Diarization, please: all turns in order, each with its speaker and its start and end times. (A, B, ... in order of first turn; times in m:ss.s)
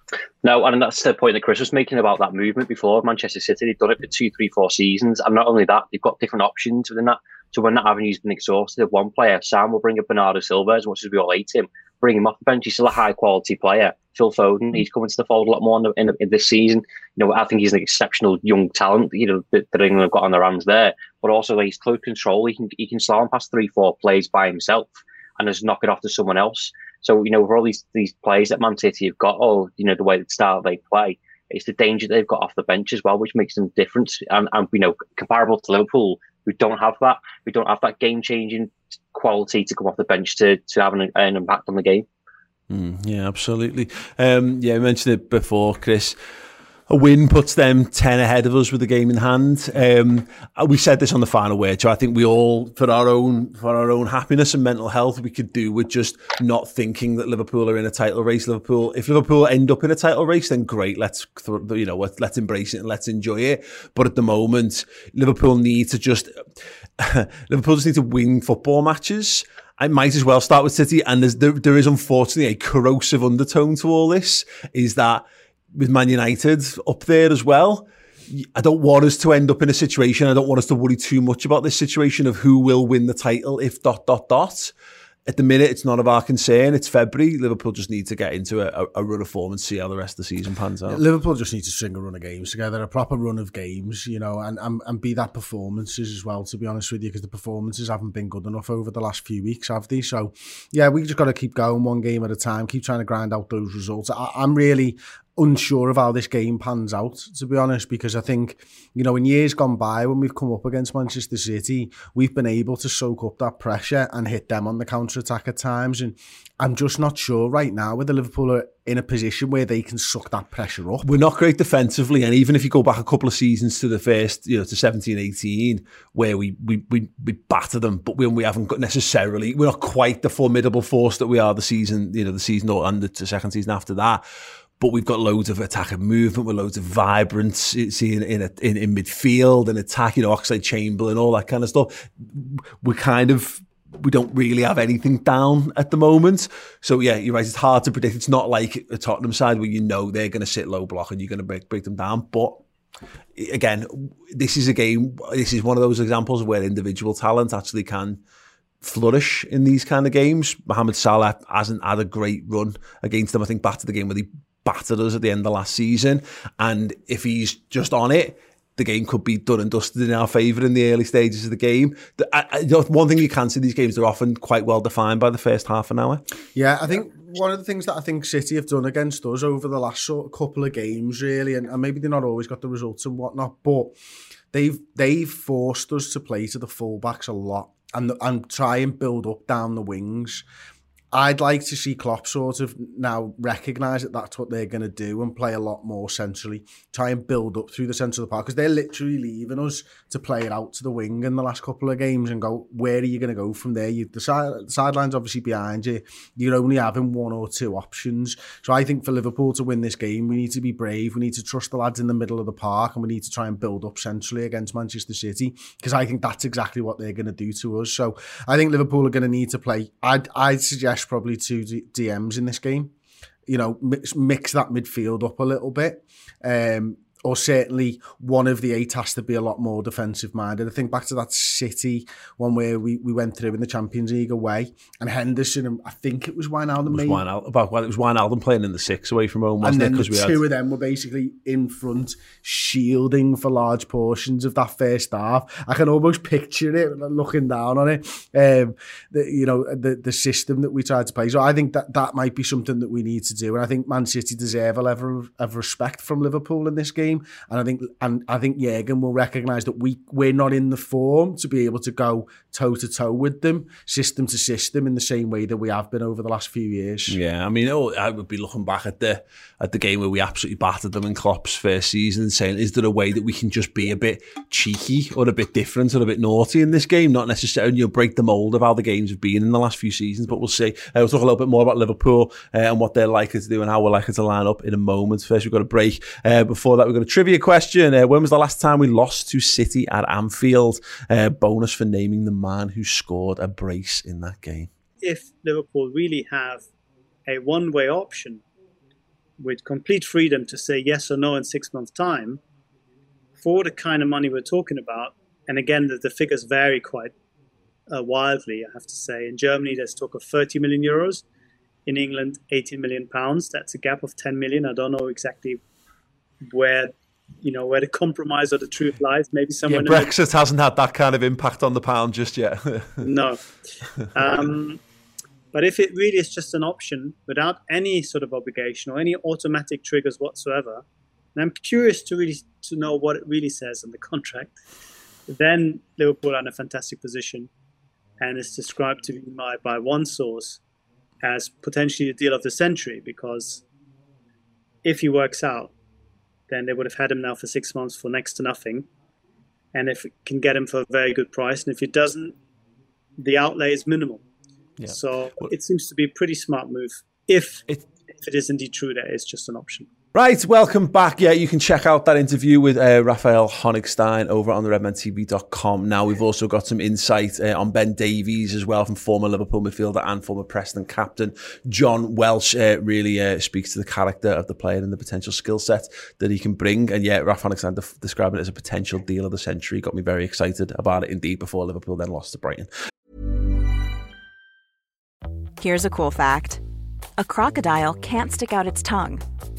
0:00.4-0:42.0 A
0:42.7-0:46.2 B
0:46.9-1:06.4 B
1:07.0-1:24.7 B
1:25.3-1:31.0 B
1:30.9-2:01.1 C
2:01.0-2:14.2 B
2:14.8-2:32.6 B
2:33.4-2:38.2 B
2:38.8-2:56.2 B
2:56.5-3:03.9 C
3:04.5-3:10.4 C
3:11.1-3:42.9 C
3:43.5-3:57.2 C
3:56.9-4:00.4 B
3:59.6-4:27.2 C
4:27.1-4:54.7 B
4:55.0-4:56.7 D
4:57.3-4:58.4 D
4:59.4-5:02.4 D
5:03.4-5:07.1 D
5:07.9-5:11.2 D
5:11.9-5:15.6 D
5:16.4-5:20.1 D
5:19.7-5:23.0 B
5:23.0-5:23.4 D
5:24.1-5:24.8 D
5:25.5-5:34.6 D
5:35.3-5:37.5 D
5:38.2-5:40.6 D
5:41.2-5:43.6 D
5:44.8-5:45.7 D
5:46.5-5:48.9 D
5:49.7-5:52.4 D
5:53.2-5:54.2 D
5:54.8-5:55.5 B
5:54.9-5:59.9 D
6:00.1-6:22.7 B
6:25.6-6:26.6 E
6:27.2-6:29.2 E